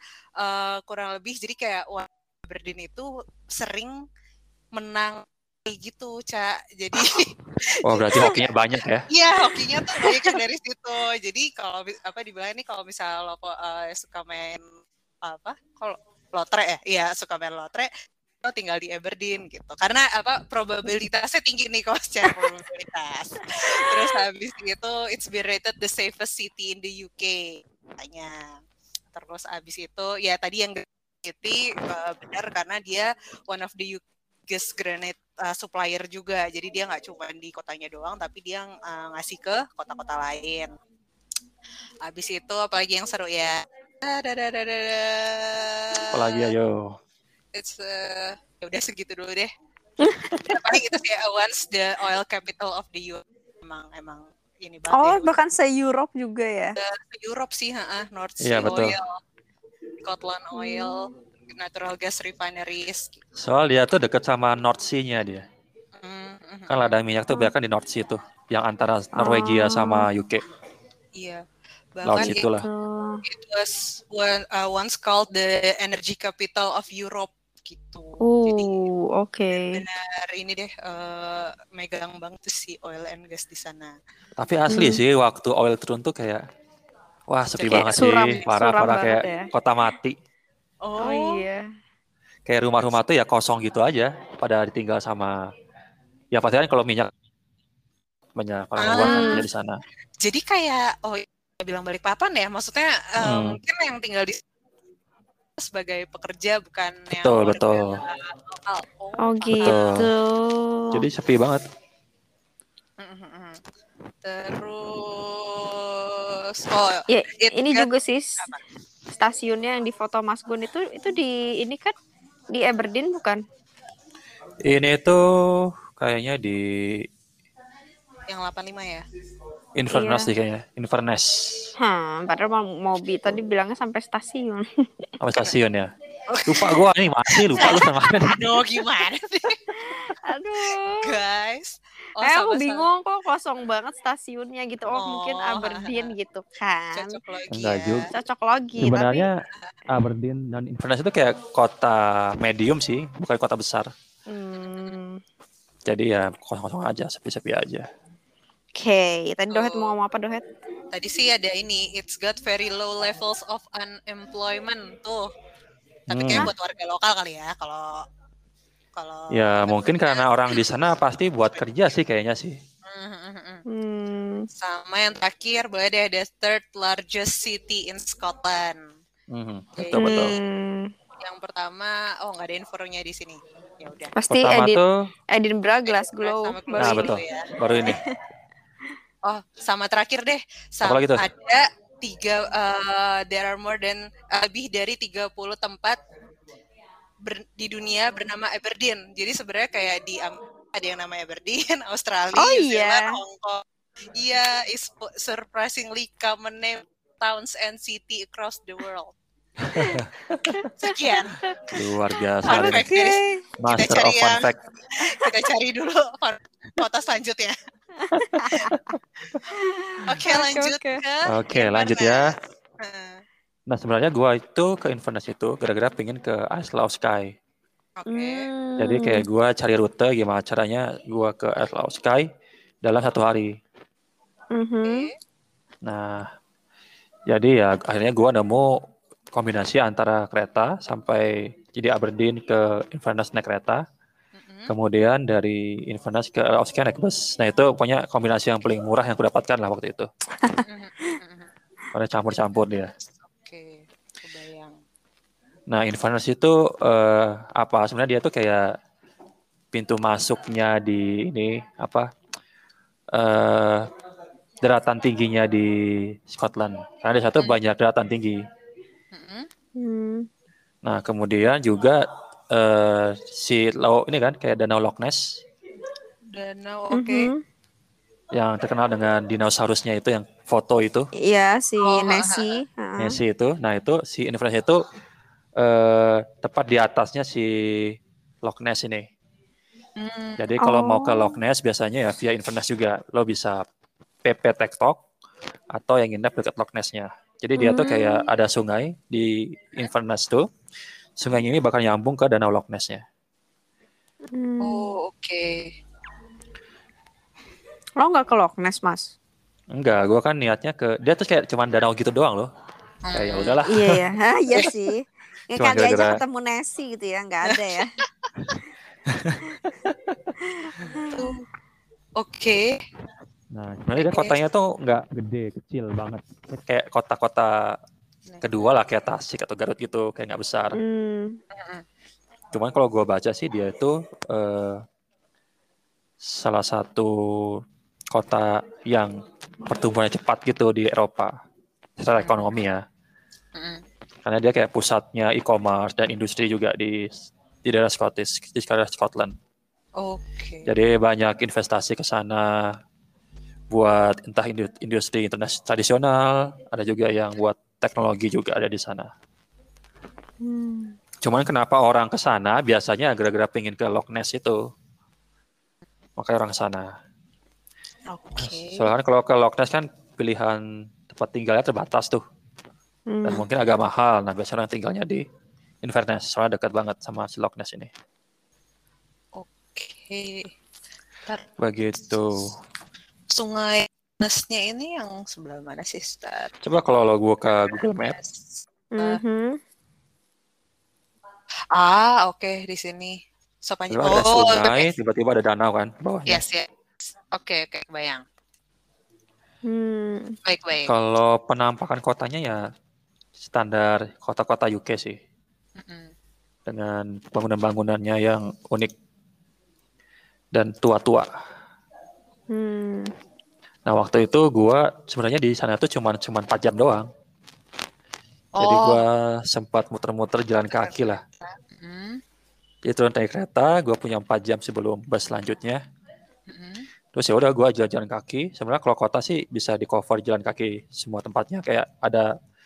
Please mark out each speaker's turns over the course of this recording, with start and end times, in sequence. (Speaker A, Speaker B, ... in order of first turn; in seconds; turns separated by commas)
Speaker A: 0.4-4.0, Speaker A: 4.7-8.5, Speaker B: 7.8-8.3, Speaker C: 7.8-9.1, Speaker A: 9.1-14.6, Speaker B: 9.4-10.4, Speaker A: 15.2-17.9, Speaker A: 18.4-28.5, Speaker B: 23.6-24.2, Speaker A: 29.1-40.7, Speaker A: 42.0-46.5, Speaker C: 46.1-46.9, Speaker A: 47.5-49.5, Speaker B: 50.0-50.7, Speaker A: 50.4-55.3, Speaker B: 54.9-56.8, Speaker A: 56.8-59.1, Speaker C: 58.4-59.0, Speaker A: 60.0-63.2, Speaker B: 60.5-61.1, Speaker C: 63.4-65.5, Speaker A: 66.0-66.9, Speaker C: 66.7-70.4, Speaker B: 69.2-70.1, Speaker A: 71.2-71.4, Speaker A: 72.0-72.4, Speaker C: 72.0-72.7, Speaker B: 72.2-73.2, Speaker A: 73.2-78.7, Speaker B: 78.2-79.8, Speaker A: 79.6-84.0, Speaker C: 84.4-86.4, Speaker B: 84.7-85.0, Speaker C: 87.3-90.2, Speaker A: 87.6-88.4, Speaker B: 87.7-89.5, Speaker A: 90.8-91.4, Speaker B: 91.0-91.6, Speaker C: 92.5-95.3, Speaker C: 96.3-97.1, Speaker C: 98.3-99.8, Speaker A: 98.8-99.4, Speaker B: 99.0-99.4, Speaker A: 100.2-104.4, Speaker C: 103.2-103.6, Speaker A: 105.6-110.0, Speaker C: 107.2-108.0, Speaker B: 109.2-111.0, Speaker C: 109.5-110.0, Speaker C: 110.9-111.6, Speaker A: 113.0-113.6, Speaker A: 114.2-117.9, Speaker B: 117.1-118.4, Speaker B: 119.1-121.9, Speaker B: 122.5-123.4, Speaker C: 124.7-127.1, Speaker A: 128.3-129.0, Speaker C: 129.8-131.7, Speaker B: 129.9-130.3, Speaker B: 131.8-134.7, Speaker C: 135.2-135.9, Speaker A: 136.3-139.7, Speaker C: 136.4-138.4, Speaker B: 139.7-141.2, Speaker A: 140.6-142.9, Speaker B: 142.2-147.2, Speaker A: 144.9-146.1, Speaker A: 146.9-148.1, Speaker C: 147.5-148.1, Speaker B: 148.1-149.3, Speaker C: 148.8-149.3, Speaker A: 149.5-149.7, Speaker C: 149.9-153.9, Speaker B: 154.3-155.2, Speaker A: 154.7-155.0, Speaker C: 155.9-157.8, Speaker B: 158.8-160.4, Speaker A: 159.5-159.9, Speaker A: 160.9-165.3, Speaker A: 166.1-168.0, Speaker C: 166.1-166.5, Speaker A: 168.9-170.6, Speaker C: 169.3-172.6, Speaker A: 172.8-173.6, Speaker B: 173.7-174.5, Speaker A: 174.6-178.8, Speaker C: 179.3-180.3, Speaker A: 179.8-180.4, Speaker B: 179.9-180.9, Speaker A: 181.2-184.1, Speaker B: 184.2-184.8, Speaker C: 184.3-184.9, Speaker B: 185.3-187.1, Speaker A: 185.8-187.5, Speaker C: 186.8-188.0, Speaker B: 187.8-188.2, Speaker A: 189.2-196.0, Speaker C: 190.8-191.2, Speaker A: 197.2-203.6, Speaker B: 202.4-203.2, Speaker A: 204.1-209.1, Speaker C: 209.6-210.5, Speaker B: 209.7-211.5, Speaker A: 210.8-211.4, Speaker C: 211.7-212.9, Speaker A: 212.4-217.6, Speaker B: 212.5-213.4, Speaker C: 213.6-214.6, Speaker B: 218.0-218.9, Speaker A: 218.5-218.8, Speaker B: 219.5-221.0, Speaker A: 220.1-223.2, Speaker C: 221.2-222.3, Speaker C: 223.7-227.3, Speaker A: 228.0-228.4, Speaker B: 228.1-229.2, Speaker C: 228.8-232.2, Speaker C: 232.8-233.5, Speaker B: 234.5-235.1, Speaker A: 234.8-235.1, Speaker C: 235.8-236.2, Speaker C: 237.3-238.7, Speaker C: 239.3-243.8, Speaker A: 244.4-244.7, Speaker C: 244.7-250.1, Speaker B: 250.4-251.1, Speaker A: 250.6-251.5, Speaker C: 251.9-252.9, Speaker A: 253.0-254.8, Speaker C: 255.7-258.6, Speaker C: 259.7-262.1, Speaker C: 263.1-263.9, Speaker C: 264.6-268.4, Speaker A: 269.1-269.5, Speaker B: 269.8-270.3, Speaker C: 270.8-275.4, Speaker A: 276.3-277.3, Speaker B: 276.9-277.4, Speaker C: 278.3-281.1, Speaker B: 281.2-283.2, Speaker A: 281.8-282.5, Speaker C: 283.0-284.8, Speaker C: 285.6-287.9, Speaker C: 288.4-289.1, Speaker A: 290.0-290.4, Speaker C: 290.4-293.6, Speaker B: 290.6-291.4, Speaker C: 294.2-295.0, Speaker C: 295.7-300.5, Speaker B: 297.6-298.3, Speaker C: 301.2-303.0, Speaker B: 304.3-304.9, Speaker A: 304.6-305.7, Speaker B: 308.0-309.1, Speaker C: 309.7-312.5, Speaker A: 313.1-313.6, Speaker C: 313.1-314.0, Speaker B: 313.7-317.9, Speaker C: 315.6-316.2, Speaker A: 317.5-318.3, Speaker C: 319.1-320.2, Speaker B: 320.5-321.3, Speaker A: 321.1-321.4, Speaker A: 322.2-322.7, Speaker C: 323.5-327.6, Speaker A: 324.0-324.4, Speaker A: 328.3-328.7, Speaker C: 328.4-330.8, Speaker B: 330.8-331.4, Speaker A: 331.5-331.8, Speaker C: 332.5-334.8, Speaker C: 336.2-337.6, Speaker C: 338.1-341.3, Speaker C: 342.0-342.8, Speaker A: 342.2-342.5, Speaker A: 343.6-343.8, Speaker C: 344.2-347.1, Speaker C: 347.6-349.3, Speaker A: 350.0-350.7, Speaker C: 350.6-352.6, Speaker C: 353.7-359.1, Speaker B: 360.4-360.9, Speaker C: 361.2-364.6, Speaker C: 366.2-366.9, Speaker A: 368.1-368.9, Speaker C: 368.4-372.2, Speaker B: 373.1-373.4, Speaker C: 373.2-375.2, Speaker C: 375.8-377.9, Speaker A: 379.3-380.5, Speaker C: 381.6-382.5, Speaker A: 383.3-386.5, Speaker C: 386.6-388.2, Speaker A: 387.6-389.2, Speaker B: 388.9-389.6, Speaker A: 391.7-394.9, Speaker C: 393.9-396.4, Speaker A: 396.3-396.7, Speaker A: 397.3-398.2, Speaker B: 399.6-400.3, Speaker A: 400.4-400.9, Speaker C: 400.9-402.6, Speaker C: 403.4-405.1, Speaker A: 405.8-406.1, Speaker C: 406.6-408.9, Speaker C: 410.5-411.3, Speaker B: 412.5-413.1, Speaker C: 413.9-417.1, Speaker A: 418.6-419.0, Speaker C: 418.6-421.2, Speaker A: 420.7-422.2, Speaker C: 422.9-425.8, Speaker A: 426.5-426.9, Speaker C: 427.1-432.3